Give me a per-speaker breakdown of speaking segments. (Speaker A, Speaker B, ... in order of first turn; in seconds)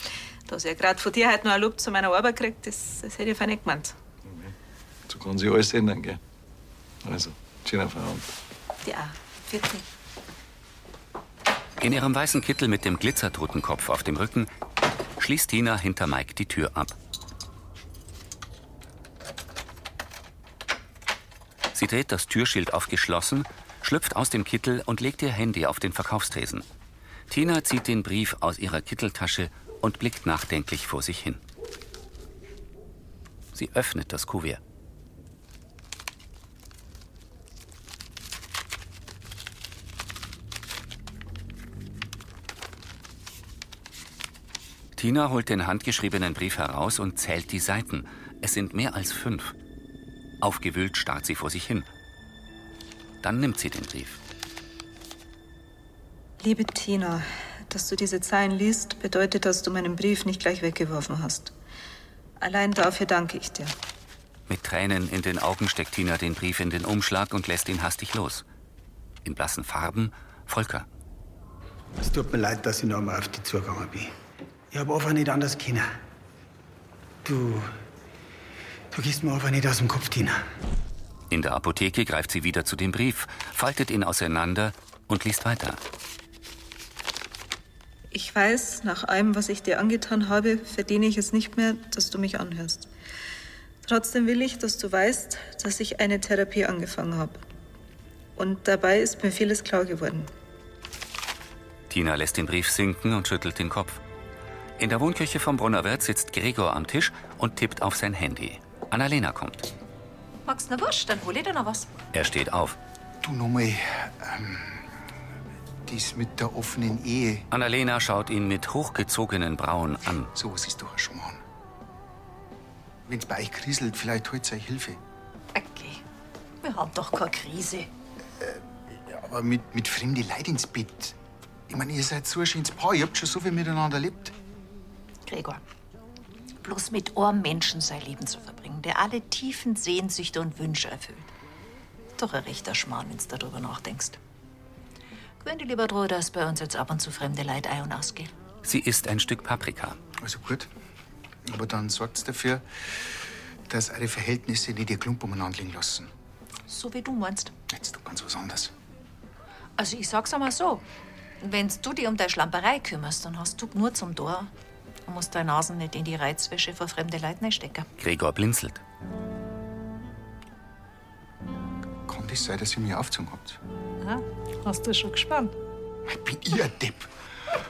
Speaker A: 0.5-4.0, 8.8-9.9, 56.4-61.5, 62.4-63.7, 88.1-92.9, 93.8-97.4, 98.4-100.3, 174.7-175.5
Speaker B: 4.2-4.5, 5.1-6.2, 7.0-8.3
Speaker C: 11.8-14.5, 15.2-16.9, 21.7-26.6, 27.3-31.4, 33.5-34.6, 45.0-49.5, 50.4-51.9, 53.2-54.2, 64.5-68.4, 69.2-70.9, 81.3-85.8, 101.9-104.0, 104.8-109.7, 112.1-112.8, 117.5-120.3, 148.6-150.0, 168.0-168.8
Speaker D: 72.0-74.1, 74.7-75.9, 77.2-77.7, 78.9-80.4
Speaker E: 110.5-111.9, 125.5-126.0, 126.6-127.9, 135.3-135.6, 136.6-141.3, 142.2-144.2, 145.4-148.3, 156.7-157.5, 159.8-160.8, 161.4-164.5, 165.1-167.9
Speaker F: 113.2-114.9, 115.9-117.5, 120.3-121.4, 123.1-125.0, 128.4-131.2, 131.7-134.3, 150.2-150.7, 151.5-152.6, 153.7-156.1, 157.7-158.7, 172.1-173.6, 176.1-177.1